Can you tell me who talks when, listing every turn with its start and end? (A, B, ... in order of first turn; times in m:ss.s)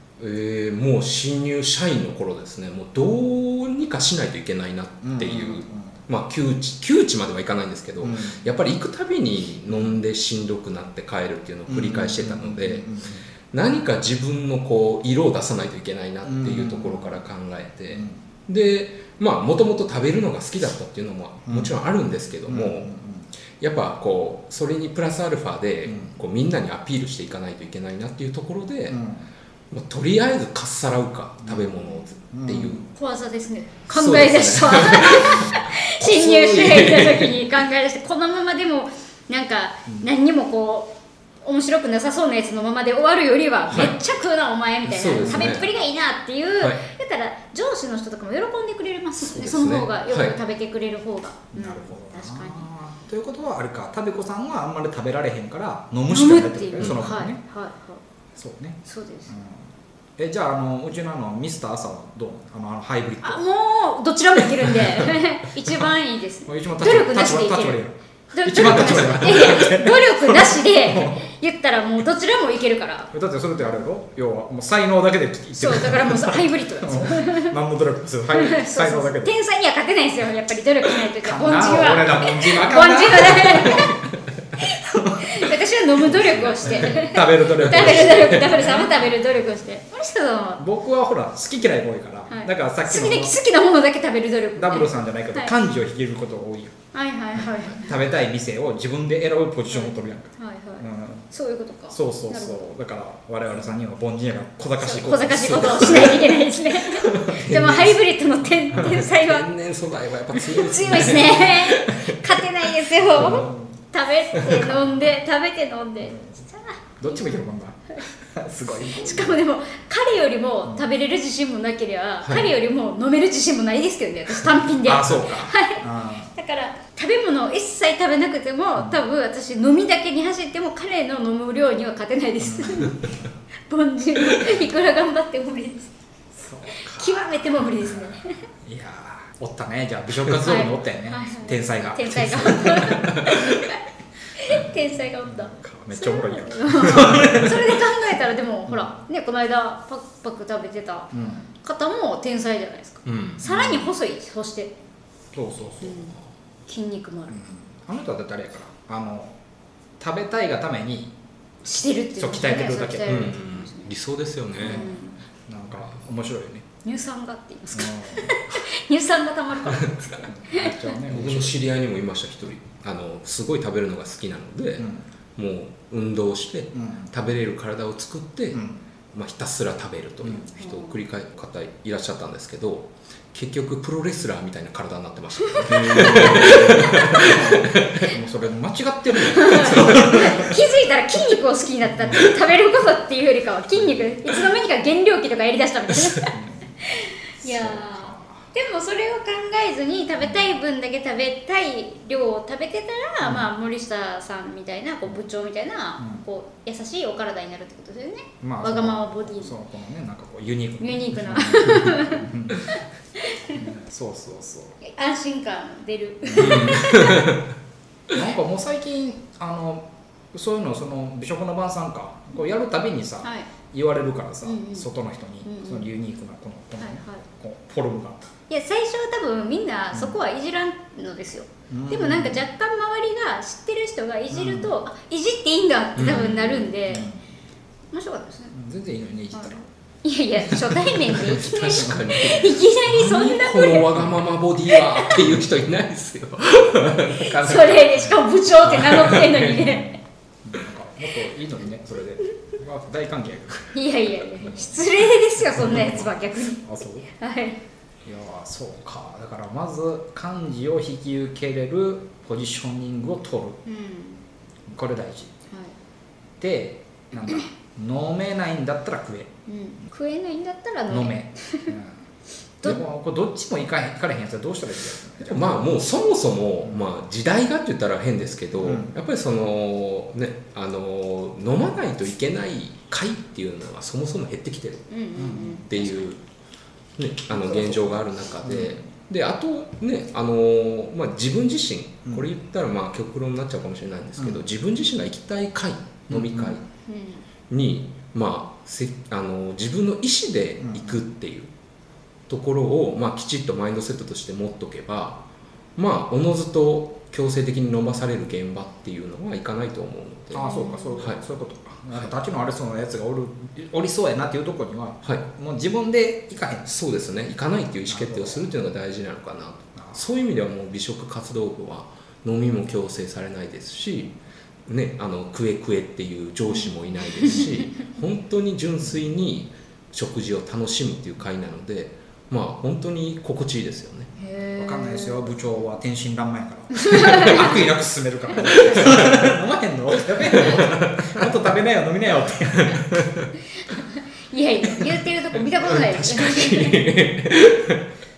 0:00.2-0:12.9 A
0:05.0-0:06.0 B
0:08.0-0:08.4 B
0:09.7-0:10.0 B
0:11.7-0:13.2 B
0:13.5-0:22.9 A
0:16.2-0:17.1 B
0:17.9-0:18.2 B
0:21.5-0:21.8 B
0:22.5-0:23.3 B
0:23.6-0:29.0 A
0:25.9-0:26.1 B
0:28.9-0:29.3 B
0:29.7-0:32.9 A
0:31.4-0:31.8 B
0:32.3-0:32.9 B
0:32.9-0:52.7 C
0:33.9-0:37.4 A
0:44.8-0:45.7 A
0:45.2-0:45.5 B
0:49.2-0:50.4 A
0:51.5-0:57.4 B
0:56.1-0:58.0 C
0:58.4-1:03.4 B
0:58.8-0:59.3 C
1:03.2-1:13.1 C
1:06.5-1:11.2 B
1:08.7-1:09.2 A
1:13.1-1:19.4 B
1:15.5-1:17.6 C
1:18.3-1:24.0 C
1:21.2-1:24.0 B
1:24.6-1:30.6 C
1:24.6-1:25.5 B
1:26.1-1:29.0 B
1:26.5-1:28.5 A
1:30.6-1:33.4 B
1:32.3-1:35.5 C
1:34.6-1:36.7 B
1:36.9-1:38.0 C
1:37.7-1:41.2 B
1:39.7-1:42.6 C
1:41.9-1:46.3 B
1:44.8-1:49.5 C
1:45.4-1:46.2 A
1:46.9-1:47.4 B
1:47.3-1:48.0 A
1:48.7-1:52.4 A
1:50.4-1:57.3 C
1:53.1-1:53.8 B
1:53.2-1:53.4 A
1:54.4-1:54.8 B
1:56.0-1:56.4 B
1:57.0-1:59.4 B
1:58.8-2:13.0 C
2:04.8-2:06.3 B
2:12.4-2:13.3 B
2:13.7-2:15.9 C
2:16.3-2:17.3 B
2:16.7-2:18.4 C
2:17.8-2:23.3 B
2:20.4-2:23.8 C
2:22.9-2:23.4 A
2:24.4-2:31.1 C
2:24.4-2:27.9 B
2:31.1-2:31.5 B
2:31.6-2:34.7 C
2:33.0-2:33.4 A
2:33.5-2:33.8 B
2:35.3-2:36.1 B
2:35.8-2:36.1 C
2:36.7-2:37.4 C
2:37.3-2:39.4 B
2:40.0-2:41.1 B
2:41.6-2:43.9 C
2:42.2-2:43.2 B
2:43.0-2:44.9 A
2:44.6-2:45.2 C
2:44.6-2:46.6 B
2:46.8-2:50.9 C
2:47.7-2:48.4 B
2:49.7-2:50.3 A
2:50.2-2:51.6 B
2:51.0-3:08.1 A
2:54.8-2:55.0 B
2:56.7-2:57.1 B
2:58.5-2:58.8 B
3:00.2-3:00.5 B
3:00.6-3:00.9 C
3:05.6-3:07.3 C
3:05.6-3:10.6 B
3:09.3-3:29.5 C
3:09.5-3:10.3 A
3:12.0-3:12.2 B
3:16.3-3:16.7 B
3:17.4-3:18.4 B
3:23.2-3:23.5 B
3:26.0-3:26.2 B
3:28.4-3:32.7 B
3:30.8-3:33.7 C
3:33.5-3:34.8 B
3:34.8-3:37.3 C
3:36.3-3:36.7 B
3:36.4-3:37.4 A
3:38.1-3:48.2 B
3:43.2-3:43.5 C
3:44.4-3:44.9 C
3:45.4-3:45.9 C
3:46.8-3:47.2 C
3:48.5-3:57.1 C
3:51.7-3:52.4 B
3:54.3-3:54.7 B
3:56.0-3:56.6 A
3:56.9-3:57.2 B
3:57.9-3:58.6 C
3:58.5-3:59.6 B
3:59.3-4:04.1 C
4:01.1-4:07.8 A
4:04.7-4:05.2 C
4:07.2-4:10.0 C
4:08.7-4:09.6 A
4:09.3-4:13.8 B
4:13.7-4:17.6 C
4:14.4-4:14.9 B
4:15.5-4:17.1 B
4:18.0-4:23.6 B
4:23.6-4:24.2 C
4:24.7-4:25.3 B
4:26.4-4:29.3 B
4:29.5-4:31.8 C
4:30.9-4:32.0 B
4:32.6-4:35.7 B
4:35.2-4:44.9 A
4:38.6-4:38.9 B
4:44.9-4:46.1 C
4:45.2-4:45.6 B
4:45.6-4:46.2 A
4:47.0-4:56.6 A
4:47.3-4:48.8 B
4:54.2-4:54.4 B
4:56.1-4:56.6 B
4:56.9-4:57.2 C
4:57.5-5:01.5 A
5:00.6-5:01.0 B
5:02.3-5:05.2 A
5:05.8-5:11.2 A
5:10.3-5:16.7 B
5:10.4-5:11.0 C
5:16.6-5:24.2 A
5:17.9-5:18.5 B
5:19.8-5:20.0 B
5:24.7-5:34.1 A
5:27.2-5:27.5 C
5:34.2-5:35.3 C
5:34.5-5:43.1 B
5:36.8-5:37.6 C
5:38.4-5:39.3 A
5:38.5-5:38.8 C
5:40.2-5:41.2 A
5:42.7-5:43.3 A
5:43.6-5:46.9 C
5:45.5-5:47.8 A